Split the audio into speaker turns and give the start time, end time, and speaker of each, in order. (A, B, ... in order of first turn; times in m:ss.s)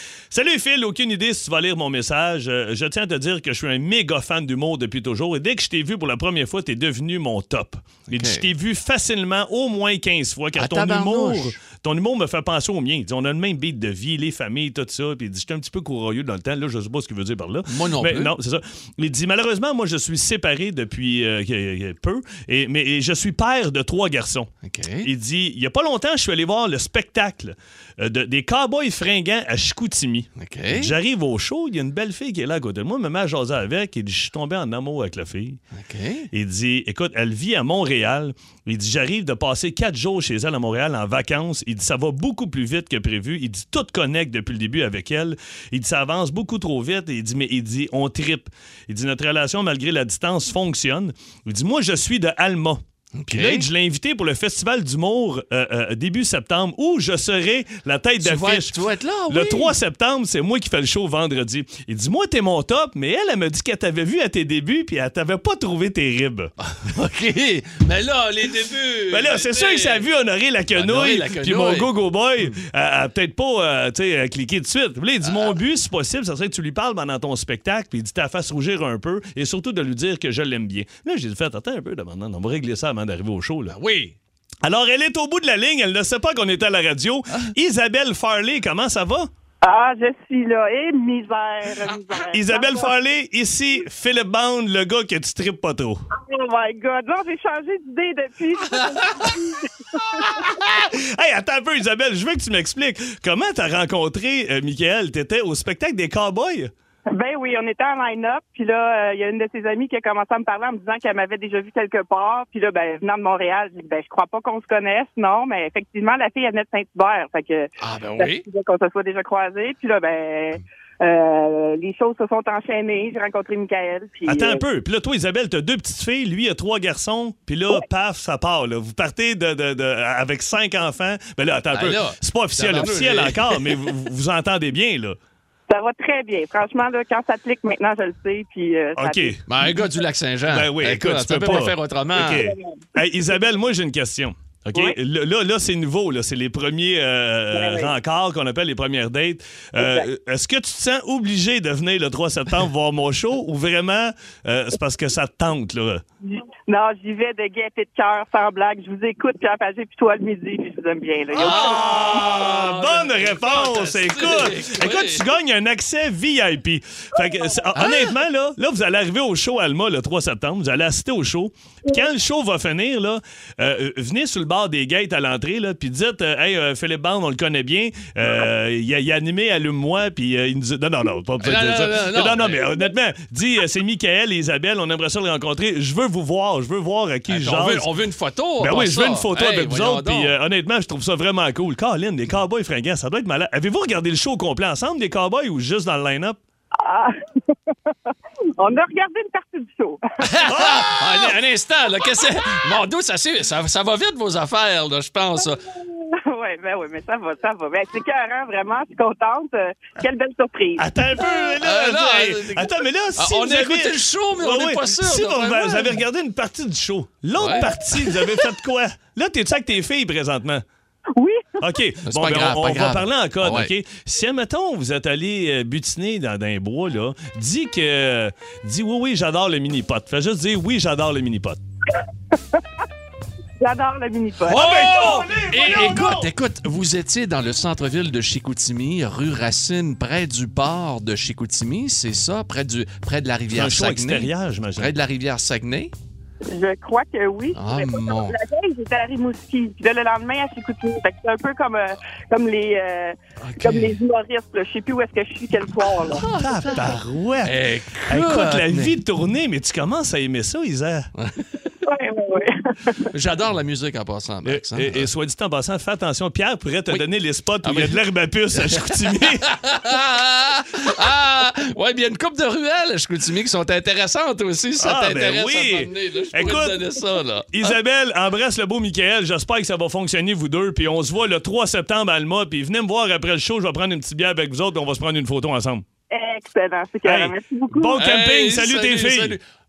0:00.3-0:24.5 A
0:08.1-0:08.5 B
0:10.6-0:11.6 B
0:17.7-0:18.3 B
0:24.6-0:25.1 B
0:25.0-0:35.6 A
0:30.4-0:31.0 B
0:35.7-0:36.3 B
0:36.3-0:58.8 A
0:53.2-0:53.7 B
0:58.2-0:59.7 B
0:59.3-1:06.5 A
1:06.6-1:10.0 B
1:09.1-1:23.8 A
1:10.7-1:11.9 B
1:23.7-1:24.1 B
1:24.6-1:29.3 A
1:29.6-1:32.9 C
1:32.3-1:36.0 A
1:36.1-1:40.5 C
1:40.3-1:46.7 A
1:47.1-2:04.6 C
1:57.8-1:58.4 B
2:04.3-2:15.2 A
2:11.7-2:13.8 B
2:15.7-2:19.3 C
2:19.0-2:19.5 A
2:19.5-2:22.5 B
2:20.5-2:36.0 A
2:22.3-2:22.8 C
2:27.5-2:27.9 C
2:29.8-2:30.1 C
2:36.2-2:42.0 C
2:41.3-3:07.9 A
2:41.4-2:45.3 B
2:47.7-2:48.1 B
3:01.4-3:02.8 B
3:07.3-3:10.3 B
3:08.6-3:16.4 A
3:16.8-3:20.3 C
3:20.2-3:25.6 B
3:20.4-3:21.3 A
3:25.4-3:30.8 C
3:30.8-3:40.6 A
3:31.6-3:36.0 B
3:37.4-3:38.4 B
3:41.2-3:41.6 C
3:41.6-3:51.6 A
3:42.0-3:43.7 B
3:53.6-3:54.7 C
3:54.5-3:56.3 A
3:54.5-4:05.9 B
4:03.5-4:04.9 A
4:06.4-4:16.2 C
4:07.5-4:08.4 B
4:13.4-4:13.9 B
4:16.1-4:19.0 B
4:16.3-4:21.1 A
4:21.2-4:21.5 B
4:21.8-4:23.1 C
4:23.1-4:25.1 B
4:24.4-4:29.5 A
4:27.6-4:37.8 B
4:34.8-4:36.9 A
4:37.5-4:45.8 A
4:46.1-4:48.0 C
4:47.0-4:49.4 A
4:48.0-4:49.4 B